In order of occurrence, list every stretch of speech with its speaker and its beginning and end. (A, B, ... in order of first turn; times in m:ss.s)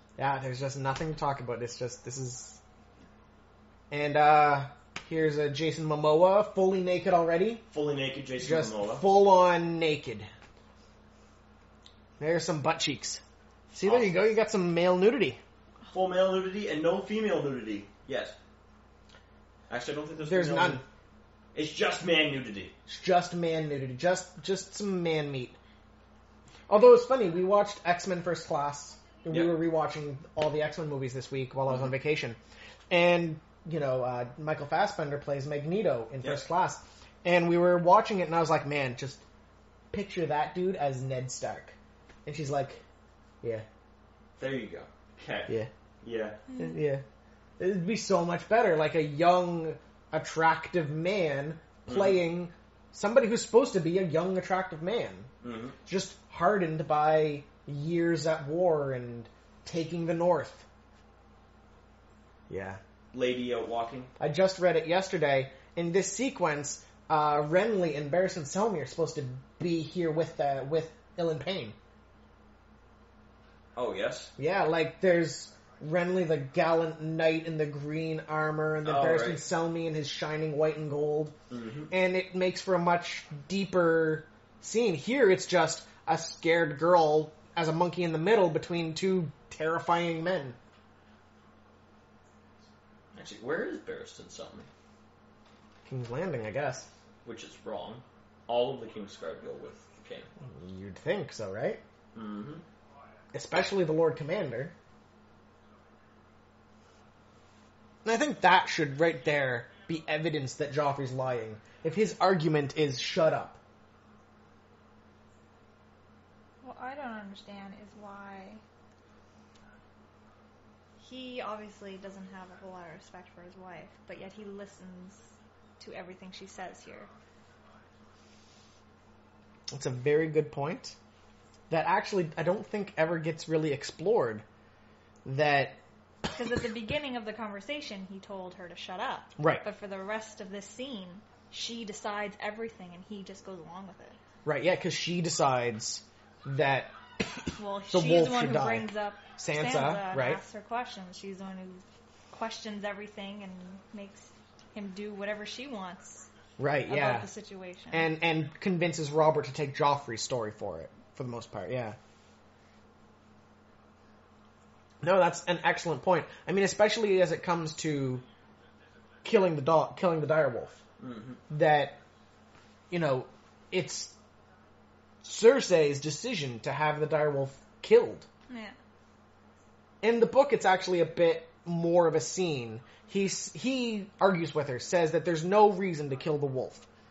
0:00.2-0:02.6 A
0:03.9-0:07.6 A
0:07.7-0:09.0 B
0:08.4-0:10.3 A
0:12.2-0:15.4 A
0:13.8-0:14.1 B
0:15.9-0:18.4 B
0:19.7-0:20.8 B
0:20.2-0:20.8 A
0:21.6-0:22.7 B
0:22.9-0:25.6 A
0:26.7-0:32.4 A
0:29.3-0:29.5 B
0:32.9-0:39.2 A
0:39.9-0:42.8 A
0:44.4-0:46.4 B
0:46.5-0:47.0 A
0:47.6-0:55.3 A
0:51.9-0:52.2 B
0:55.4-0:55.8 B
0:55.9-1:00.7 A
1:02.5-1:02.8 A
1:03.1-1:04.1 B
1:04.2-1:11.8 A
1:13.8-1:14.3 B
1:14.4-1:21.4 A
1:18.8-1:19.4 B
1:21.5-1:21.9 B
1:21.9-1:30.6 A
1:33.1-1:34.7 B
1:35.9-1:36.9 A
1:37.2-1:40.3 B
1:40.4-1:41.8 A
1:42.2-1:42.6 B
1:43.3-1:44.7 A
1:48.0-1:53.6 A
1:56.6-1:58.6 C
2:01.0-2:05.2 C
2:05.8-2:07.1 C
2:09.7-2:11.0 A
2:11.7-2:14.4 A
2:15.2-2:15.8 A
2:16.3-2:24.2 C
2:19.4-2:19.6 A
2:24.4-2:30.4 A
2:27.6-2:36.3 C
2:36.6-2:37.3 A
2:36.9-2:38.1 C
2:37.9-2:42.0 A
2:45.0-2:48.2 A
2:49.2-2:50.8 A
2:51.0-2:51.4 B
2:51.5-2:52.0 A
2:52.9-2:54.1 A
2:55.2-2:58.3 A
2:58.5-2:58.8 C
3:00.0-3:06.9 A